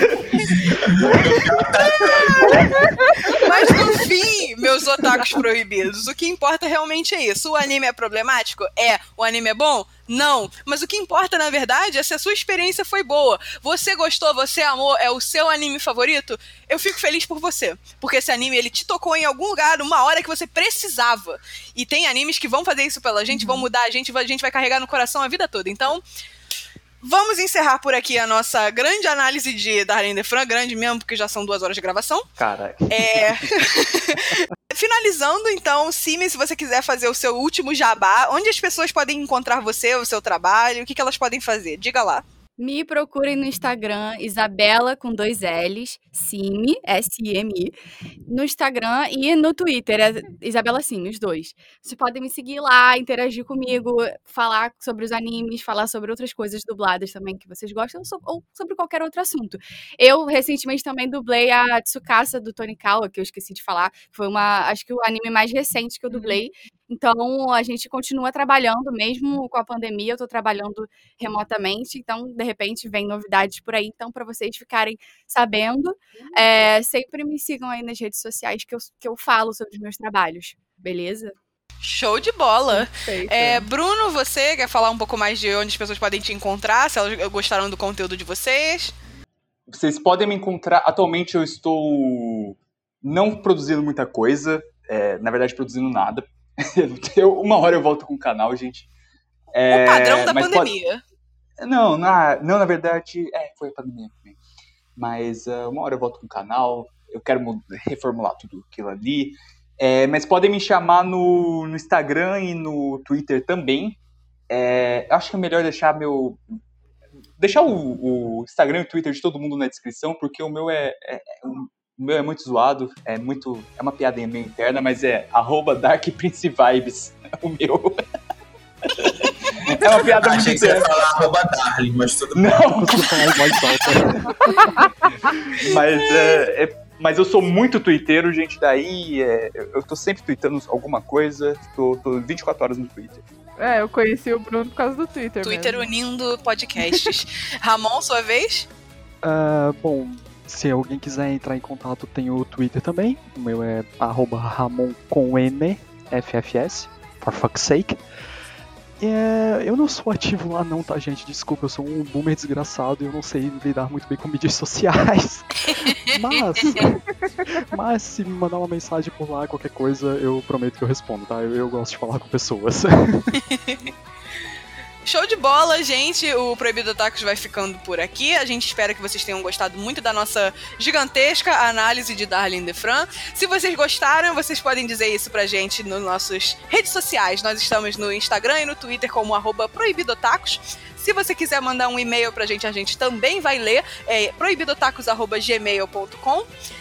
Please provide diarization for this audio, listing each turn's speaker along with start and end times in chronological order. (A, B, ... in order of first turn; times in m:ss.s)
0:00.3-0:02.9 A
0:01.9-0:02.6 B
0:02.6-0:03.5 C
0:03.3-0:26.0 B
0:23.3-0:23.6 C
0:27.0-0:32.3 B
0:32.4-0:33.2 D
0:32.9-0:42.2 B
0:42.6-0:47.8 E
0:48.3-1:21.4 E
1:06.1-1:06.4 C
1:21.8-1:29.0 B
1:22.7-1:23.7 C
1:29.7-1:38.9 D
1:39.5-1:40.7 D
1:39.7-1:41.0 B
1:41.6-1:44.4 D
1:45.0-1:54.0 D
1:54.5-1:56.4 D
1:57.4-2:08.1 D
2:08.8-2:11.0 D
2:09.6-2:12.7 A
2:12.4-2:13.6 D
2:12.8-2:14.7 F
2:14.8-2:15.3 C
2:15.6-2:23.2 D
2:23.6-2:25.9 C
2:25.4-2:28.7 B
2:29.2-2:38.0 F
2:39.0-2:47.0 F
2:46.6-2:46.9 B
2:47.6-2:53.4 F
2:53.4-2:53.9 B
2:55.0-3:16.5 B